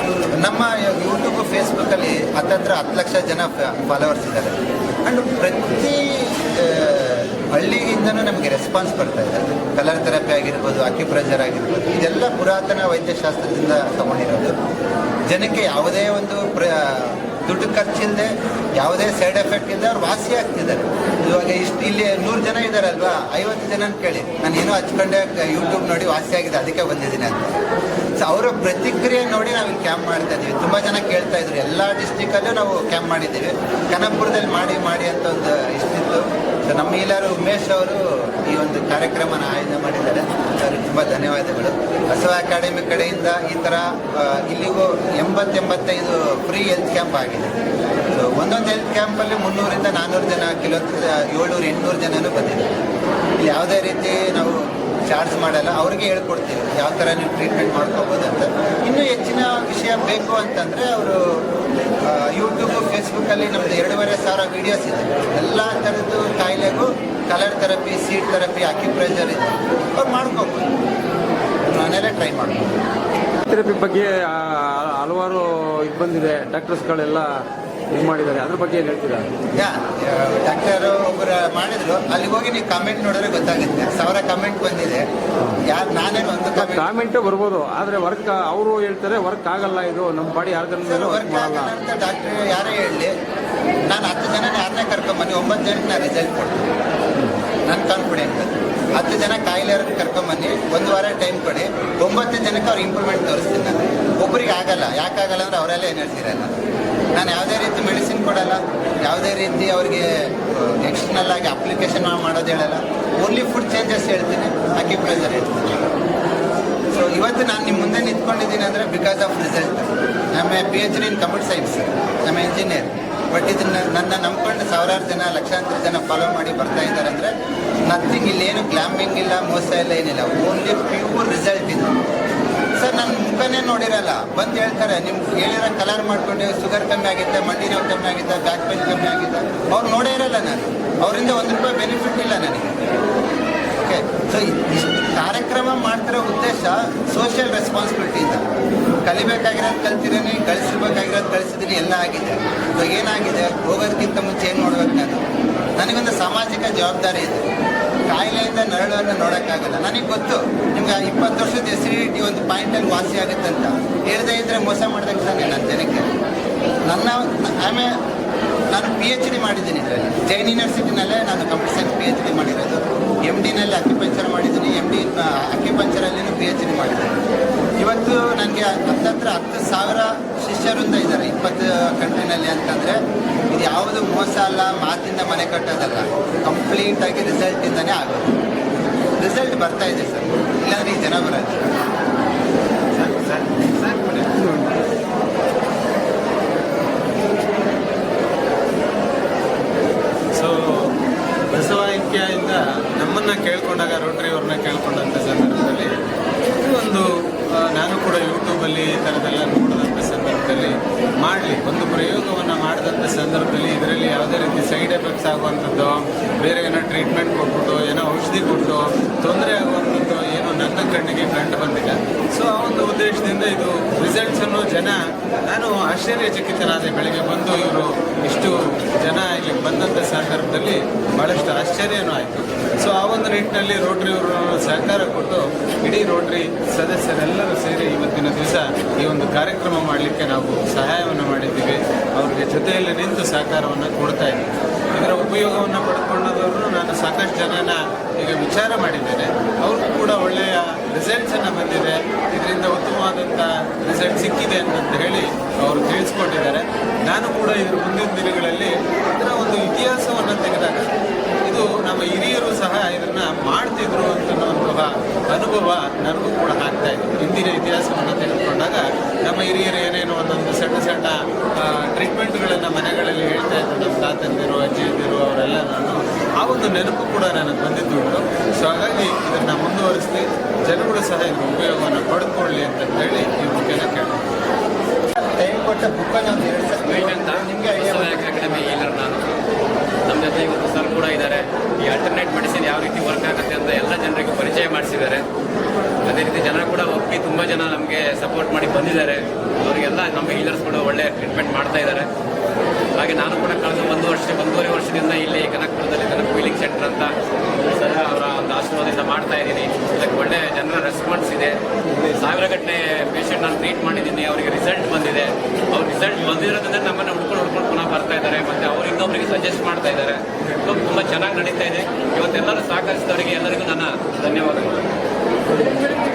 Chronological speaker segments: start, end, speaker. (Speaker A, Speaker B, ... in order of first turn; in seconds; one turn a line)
Speaker A: 0.3-14.6
Speaker A: 15.3-27.6
Speaker A: 28.2-47.6
Speaker A: 48.1-52.8
Speaker A: 53.4-61.5
Speaker A: 62.0-70.8
Speaker A: 71.7-72.8
Speaker B: 73.5-77.3
Speaker B: 77.9-79.3
Speaker A: 79.5-85.1
Speaker A: 85.6-86.9
Speaker B: 86.6-91.7
Speaker A: 90.8-93.2
Speaker A: 93.9-96.7
Speaker B: 97.2-97.4
Speaker A: 97.7-106.5
Speaker A: 107.1-115.9
Speaker A: 116.9-127.3
Speaker A: 127.9-132.0
Speaker A: 132.8-142.8
Speaker A: 143.8-148.5
Speaker A: 149.1-155.2
Speaker A: 155.8-157.5
Speaker A: 158.1-166.1
Speaker A: 166.9-167.9
Speaker A: 168.7-188.4
Speaker A: 189.2-191.8
Speaker C: 192.9-194.3
Speaker B: 194.4-194.7
Speaker C: 200.4-200.9
Speaker C: 201.5-205.9
Speaker C: 206.6-244.4
Speaker C: 245.0-260.9
Speaker C: 261.5-284.2
Speaker A: 285.2-288.8
Speaker D: 290.6-291.3
Speaker D: 292.3-295.2
Speaker D: 296.3-298.4
Speaker D: 299.9-302.0
Speaker D: 303.0-307.1
Speaker D: 307.9-311.5
Speaker D: 312.5-315.3
Speaker D: 316.1-320.1
Speaker D: 320.7-324.3